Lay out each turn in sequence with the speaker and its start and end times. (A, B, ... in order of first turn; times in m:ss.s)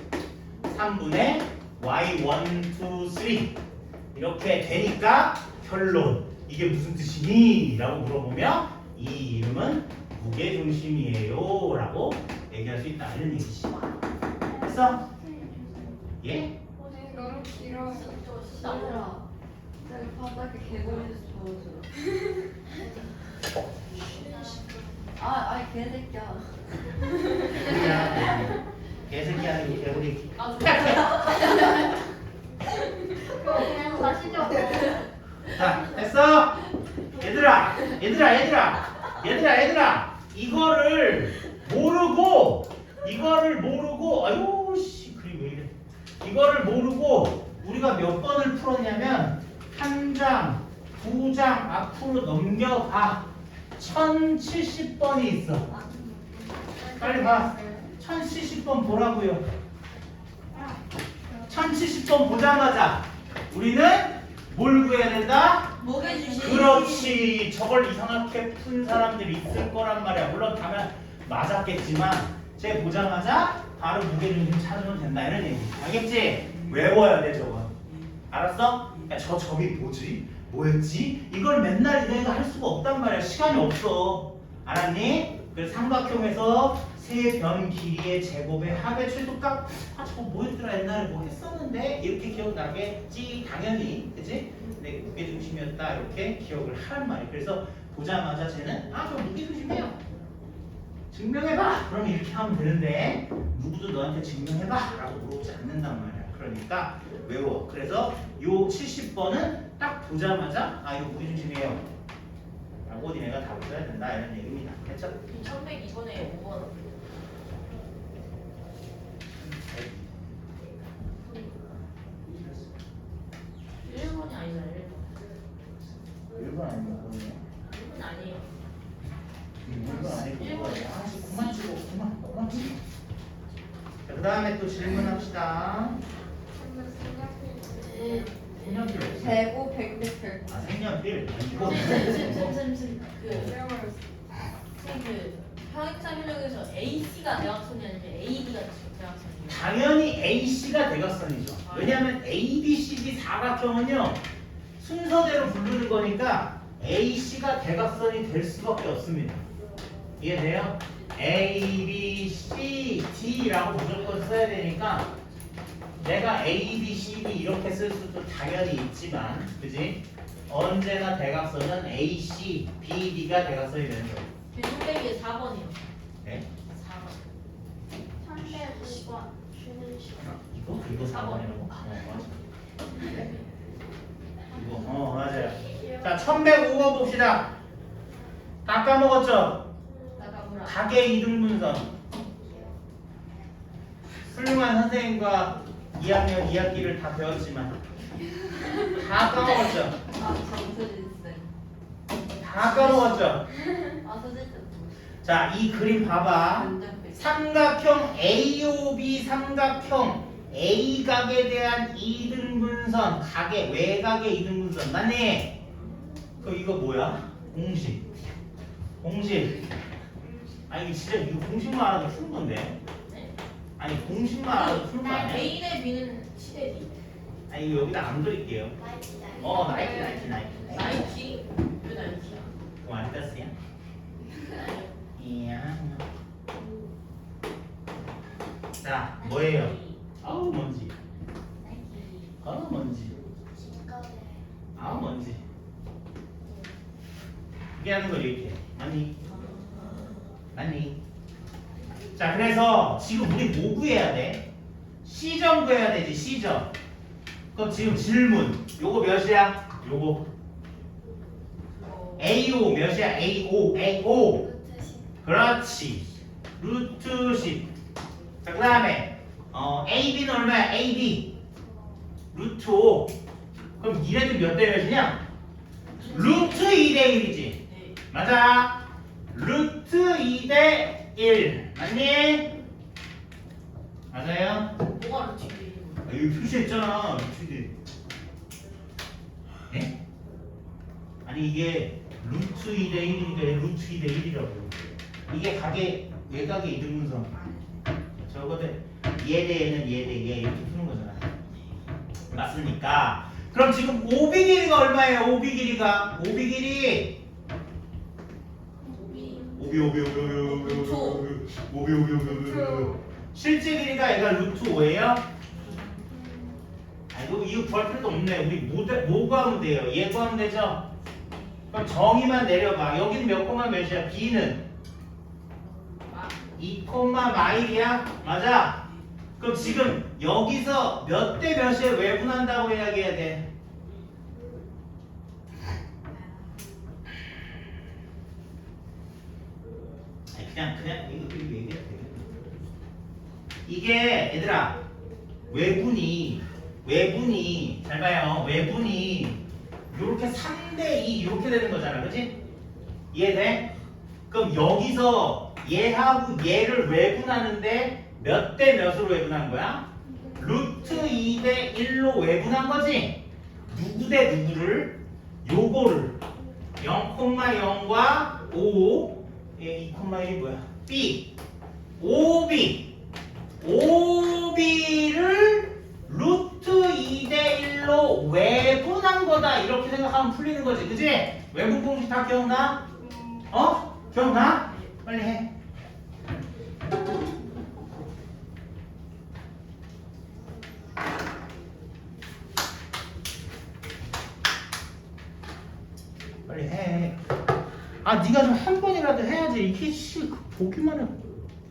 0:00.7-0:03.5 A
0:04.1-0:13.8 A
0:14.6-0:15.0 A
0:15.0-0:15.9 B
0:16.2-0:16.5 A
0:16.8-0:19.1 C
0:16.9-0:18.3 D
0:17.9-0:18.5 B
0:18.5-0:19.2 E
0:19.8-0:21.9 E
0:23.9-0:24.6 C
0:24.0-0:25.0 B
0:25.2-0:27.0 E
0:27.5-0:31.4 A
0:27.6-0:28.0 E
0:30.4-0:31.9 C
0:33.3-0:35.0 B
0:33.5-0:35.0 C
0:35.5-0:36.6 A
0:37.2-0:55.7 A
0:56.7-0:57.9 D
0:56.9-0:59.4 A
1:01.4-1:05.7 A
1:05.8-1:07.2 C
1:05.8-1:06.7 E
1:06.3-1:17.7 A
1:18.3-1:40.0 A
1:41.1-1:51.8 A
1:52.8-1:55.2 A
1:55.3-1:56.9 C
1:59.4-2:00.4 A
2:02.2-2:02.7 A
2:03.8-2:05.1 C
2:06.1-2:07.4 A
2:07.7-2:08.5 C
2:09.6-2:12.8 A
2:09.8-2:11.7 C
2:14.0-2:16.0 A
2:16.5-2:19.0 D
2:17.8-2:18.5 C
2:18.5-2:19.5 A
2:19.2-2:20.7 E
2:20.5-2:22.6 A
2:21.5-2:23.6 C
2:23.2-2:23.6 A
2:23.3-2:24.2 D
2:24.7-2:29.7 C
2:29.4-2:34.2 A
2:31.6-2:32.0 C
2:34.8-2:39.4 A
2:40.2-2:45.1 A
2:46.0-2:54.2 A
2:54.5-2:55.8 C
2:56.7-2:57.3 C
2:58.2-3:00.4 B
2:58.6-2:59.0 C
3:00.2-3:03.3 A
3:01.1-3:01.7 C
3:04.5-3:07.5 A
3:05.7-3:06.2 B
3:08.6-3:09.7 A
3:10.2-3:10.8 C
3:10.6-3:11.9 A
3:12.2-3:12.8 B
3:14.3-3:17.8 A
3:18.9-3:20.0 A
3:20.1-3:21.5 E
3:22.4-3:23.5 A
3:22.7-3:23.1 C
3:24.0-3:25.0 E
3:25.2-3:35.6 A
3:26.6-3:27.3 E
3:36.4-3:38.0 A
3:39.0-3:39.6 A
3:40.2-3:40.6 D
3:40.7-3:42.8 A
3:43.1-3:43.4 C
3:43.8-3:45.5 A
3:44.4-3:46.9 C
3:47.5-3:48.8 A
3:48.8-3:50.1 B
3:49.4-3:51.0 A
3:49.7-3:50.8 D
3:50.7-3:52.5 C
3:52.8-3:53.5 A
3:54.5-3:54.9 C
3:55.1-3:56.0 A
3:58.8-4:00.9 A
3:59.2-4:00.0 C
4:01.6-4:02.3 C
4:02.4-4:03.2 A
4:03.5-4:04.4 B
4:04.7-4:05.4 A
4:07.8-4:09.2 A
4:09.2-4:10.2 C
4:10.5-4:11.0 A
4:12.1-4:14.4 A
4:15.0-4:16.7 A
4:17.5-4:20.2 A
4:21.8-4:22.3 C
4:22.2-4:24.4 A
4:24.4-4:25.1 B
4:25.2-4:27.7 A
4:28.4-4:31.3 A
4:32.3-4:33.1 A
4:33.8-4:35.2 A
4:36.0-4:36.8 C
4:36.0-4:37.6 A
4:37.6-4:38.0 C
4:38.1-4:38.8 A
4:39.3-4:42.5 A
4:44.1-4:44.7 A
4:44.7-4:46.1 C
4:46.0-4:47.7 A
4:49.7-4:50.0 A
4:51.2-4:54.8 A
4:55.3-5:01.3 A
5:02.3-5:07.2 A
5:08.9-5:11.3 C
5:09.5-5:15.2 A
5:12.3-5:13.0 D
5:15.6-5:16.0 C
5:17.1-5:20.8 A
5:21.7-5:24.6 A
5:26.0-5:26.3 C
5:26.6-5:28.8 A
5:28.1-5:29.0 C
5:29.4-5:33.4 A
5:40.3-5:42.3 A
5:43.6-5:44.8 A
5:45.5-5:49.4 A
5:49.9-5:52.3 A
5:53.1-5:53.7 A
5:54.3-6:06.2 A
6:06.8-6:11.3 A
6:12.0-6:12.9 A
6:13.6-6:22.8 A
6:23.5-6:25.5 A
6:36.4-6:37.2 A
6:38.0-6:41.4 A